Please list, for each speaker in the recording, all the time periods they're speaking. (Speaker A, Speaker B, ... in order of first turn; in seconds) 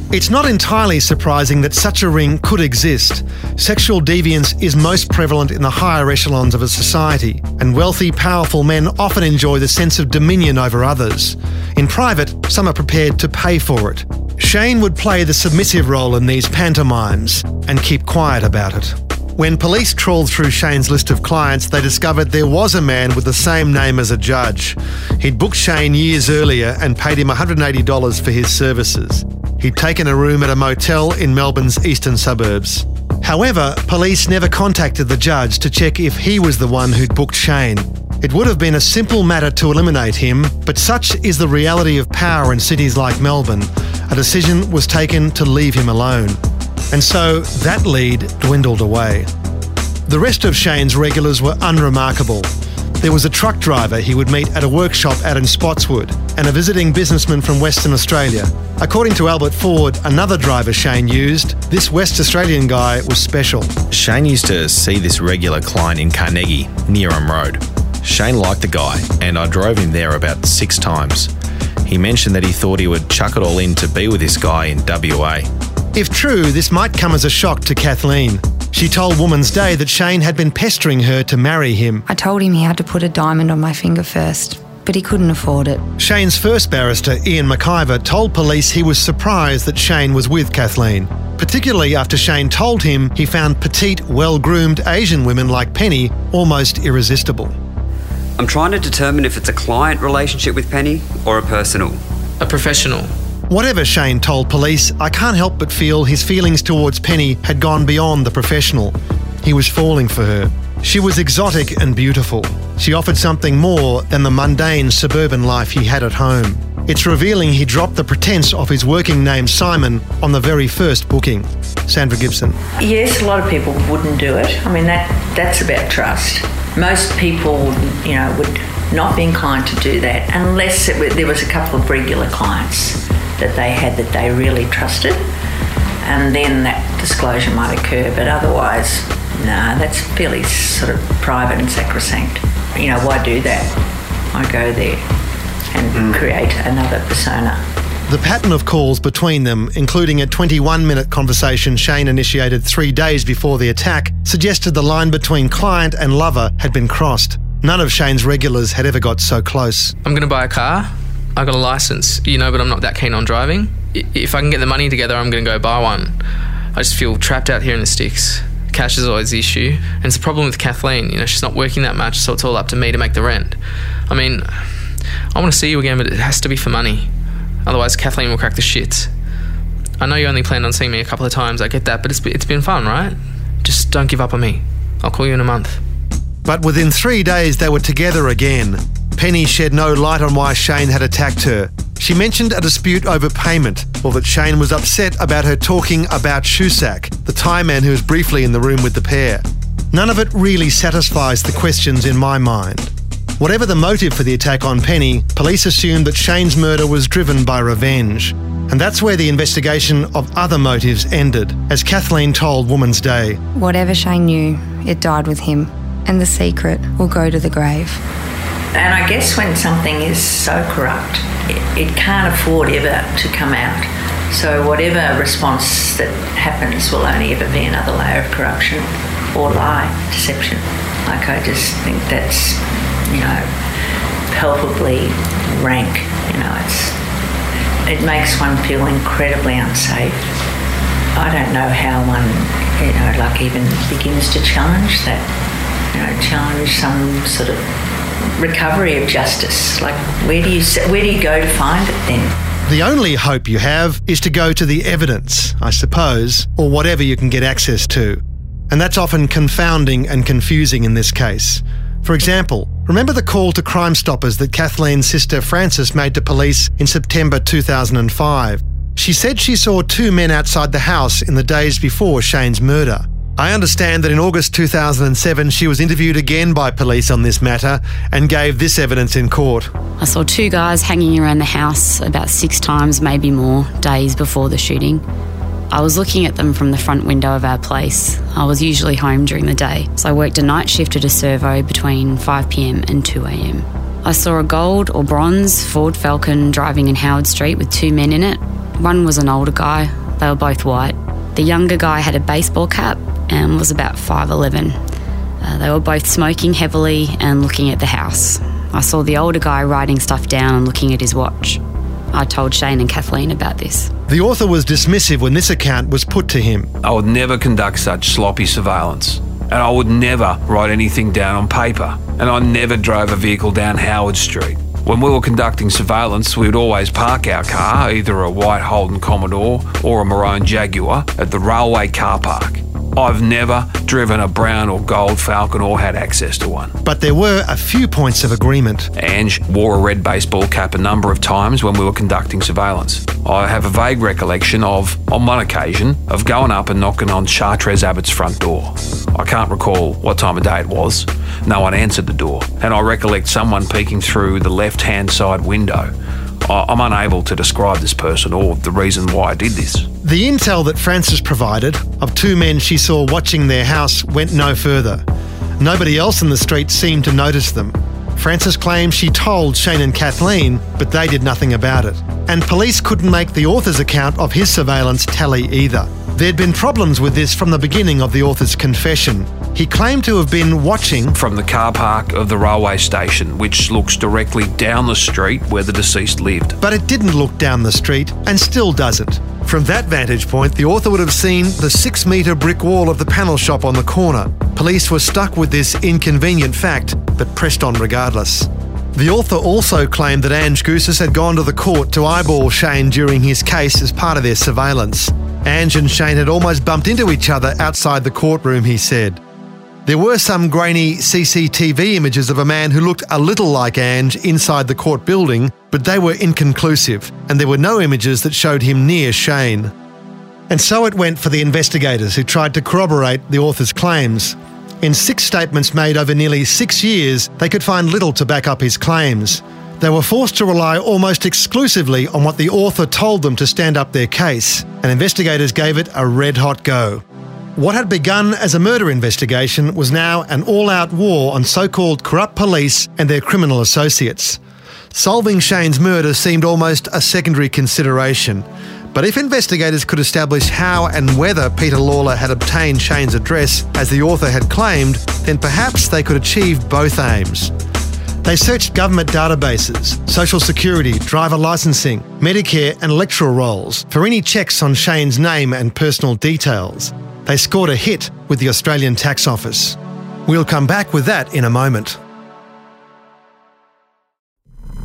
Speaker A: 0.1-46.4, 46.9-49.3, 50.1-63.8, 75.9-82.0, 86.0-97.5, 103.5-122.6, 148.1-159.9, 186.4-213.4, 252.7-279.7, 314.1-316.7, 336.8-338.9, 360.0-365.0, 365.6-381.1, 386.6-409.2, 409.9-419.7, 420.5-437.0, 437.6-444.4, 444.9-457.5, 458.2-472.0
Speaker B: 63.9-71.3, 71.8-75.5
Speaker C: 82.1-85.8, 213.5-218.0
Speaker D: 98.4-102.0
Speaker E: 102.4-103.1, 160.0-166.2, 166.7-177.1, 177.6-179.1, 180.0-185.8
Speaker F: 122.8-135.2, 136.0-143.7, 144.3-145.0, 145.7-147.6, 218.7-233.5, 234.3-237.0, 237.8-240.3, 241.1-245.3, 245.9-247.7, 248.3-252.3
Speaker G: 280.0-285.0, 285.7-304.8, 305.4-311.6, 312.1-313.9
Speaker H: 316.8-336.8, 338.9-355.9, 356.4-359.9, 381.1-386.6